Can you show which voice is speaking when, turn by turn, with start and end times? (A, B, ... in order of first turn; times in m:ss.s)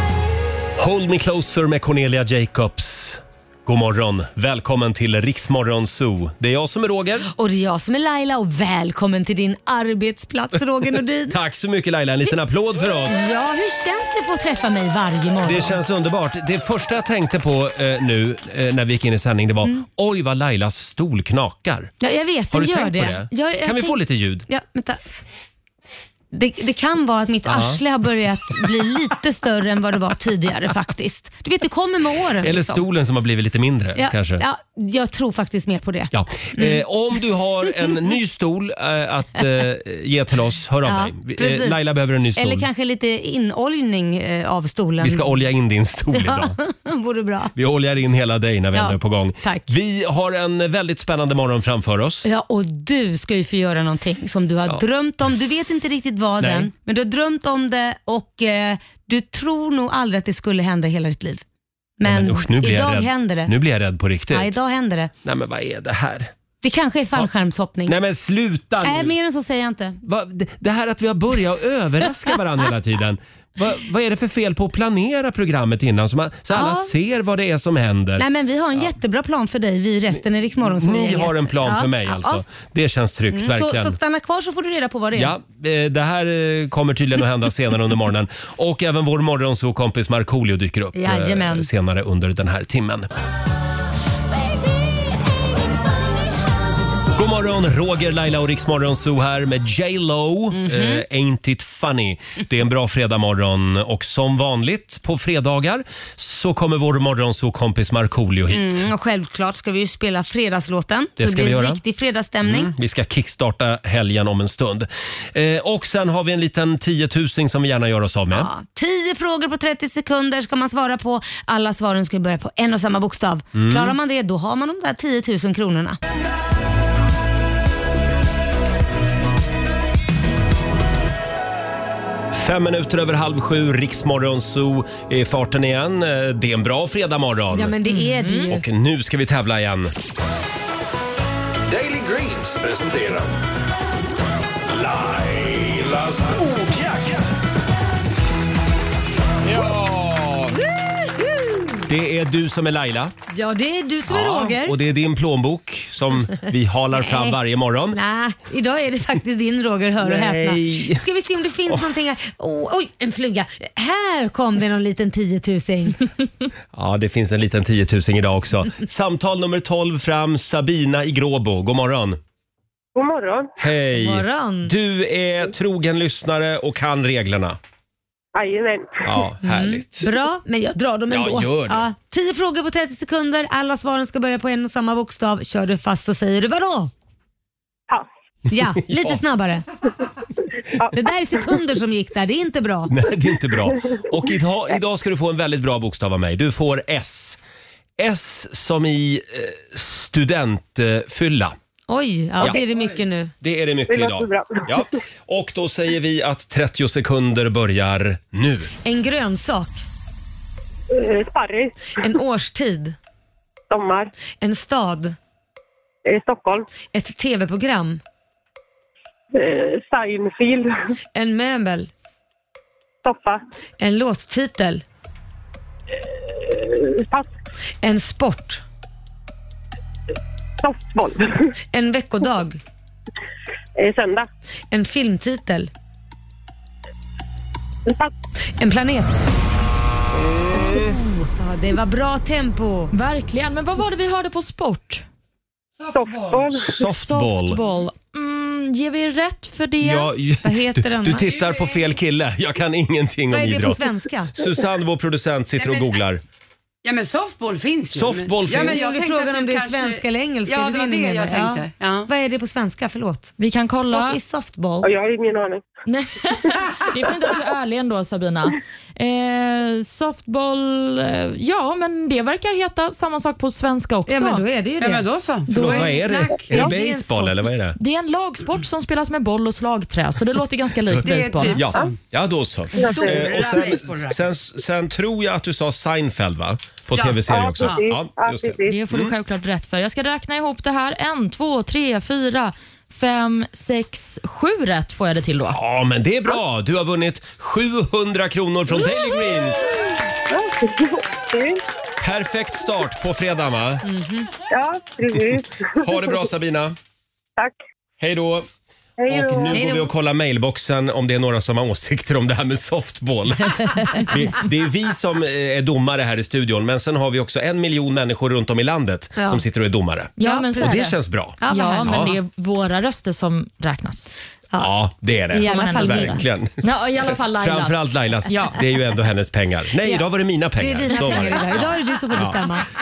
0:00.8-0:07.3 A
0:07.3-0:11.4 B
0:11.3-0:13.2 A
0:13.0-0:15.8 B
0:15.4-0:21.9 A
0:22.0-0:25.0 B
0:22.5-0:24.4 A
0:26.3-0:32.8 B
0:27.4-0:27.8 A
0:32.4-0:34.4 A
0:34.0-0:36.8 B
0:36.1-0:42.7 A
0:40.8-0:41.8 B
0:42.3-0:45.3 B
0:45.0-0:46.6 A
0:46.1-0:47.5 B
0:47.6-0:52.2 A
0:48.7-0:49.7 B
0:52.2-1:01.4 B
0:56.4-0:56.7 A
1:02.0-1:03.5 B
1:02.0-1:04.6 A
1:04.3-1:05.1 B
1:05.2-1:06.3 A
1:06.6-1:08.0 B
1:07.9-1:09.1 A
1:08.8-1:10.0 B
1:10.0-1:18.2 A
1:16.5-1:16.9 B
1:18.2-1:22.4 B
1:20.6-1:24.0 A
1:23.3-1:25.3 B
1:25.1-1:33.1 A
1:30.9-1:31.7 B
1:37.1-1:48.8 A
1:40.5-1:41.0 B
1:48.5-1:52.7 B
1:51.2-1:51.8 A
1:52.4-1:58.5 A
1:58.3-2:06.0 B
2:03.5-2:04.0 A
2:12.3-2:17.7 A
2:17.5-2:18.6 B
2:17.8-2:18.5 C
2:18.5-2:19.9 A
2:21.7-2:23.3 D
2:24.7-2:27.2 D
2:29.4-2:30.5 D
2:31.0-2:31.7 B
2:31.9-2:33.1 A
2:33.3-2:34.8 B
2:34.1-2:38.0 A
2:37.0-2:37.4 B
2:37.9-2:46.1 B
2:40.0-2:41.0 A
2:46.7-2:52.2 A
2:52.9-2:53.5 E
2:53.6-2:57.6 A
2:54.0-2:54.7 B
2:58.3-2:59.0 E
2:59.0-3:00.1 A
2:59.4-3:06.9 B
3:01.1-3:01.9 A
3:08.5-3:09.6 B
3:08.9-3:09.2 A
3:10.9-3:12.9 B
3:12.9-3:17.4 A
3:18.0-3:21.6 A
3:21.9-3:23.3 B
3:22.4-3:22.7 A
3:23.4-3:28.7 A
3:23.9-3:24.7 E
3:28.8-3:29.8 B
3:30.9-3:32.0 E
3:32.0-3:33.0 B
3:33.7-3:34.1 E
3:34.4-3:35.2 B
3:36.0-3:36.6 E
3:36.9-3:38.0 B
3:39.3-3:40.7 E
3:41.1-3:41.9 B
3:43.0-3:43.4 E
3:43.8-3:44.8 B
3:46.0-3:47.3 E
3:47.8-3:48.6 B
3:50.6-3:51.5 E
3:51.7-3:52.6 B
3:53.8-3:54.3 E
3:54.7-3:55.7 B
3:57.9-3:58.1 E
3:58.6-3:59.1 B
4:00.7-4:02.9 B
4:02.9-4:05.0 C
4:05.9-4:06.7 E
4:06.5-4:07.6 A
4:06.8-4:10.1 C
4:09.8-4:16.2 A
4:10.4-4:11.3 B
4:13.3-4:14.4 B
4:16.8-4:22.1 F
4:17.9-4:18.9 A
4:18.5-4:23.3 B
4:23.4-4:24.2 C
4:23.9-4:24.9 B
4:24.8-4:25.6 E
4:25.9-4:34.4 C
4:34.1-4:37.4 B
4:34.8-4:36.7 F
4:35.5-4:37.8 A
4:37.8-4:41.6 C
4:41.0-4:42.0 F
4:41.6-4:49.1 A
4:42.7-4:44.2 F
4:42.8-4:43.3 E
4:46.9-4:47.8 F
4:47.3-4:48.8 E
4:48.7-4:55.6 C
4:55.5-4:59.8 A
5:00.3-5:01.6 E
5:02.0-5:03.8 A
5:03.9-5:04.2 B
5:04.5-5:06.0 E
5:05.3-5:06.8 A
5:08.0-5:08.5 A
5:09.0-5:09.7 E
5:09.1-5:22.1 A
5:09.5-5:09.9 B
5:13.8-5:14.0 C
5:19.2-5:19.4 B
5:20.2-5:24.1 C
5:20.2-5:20.8 B
5:21.4-5:22.1 B
5:24.6-5:32.5 A
5:25.3-5:26.2 B
5:25.4-5:28.6 C
5:29.8-5:32.7 B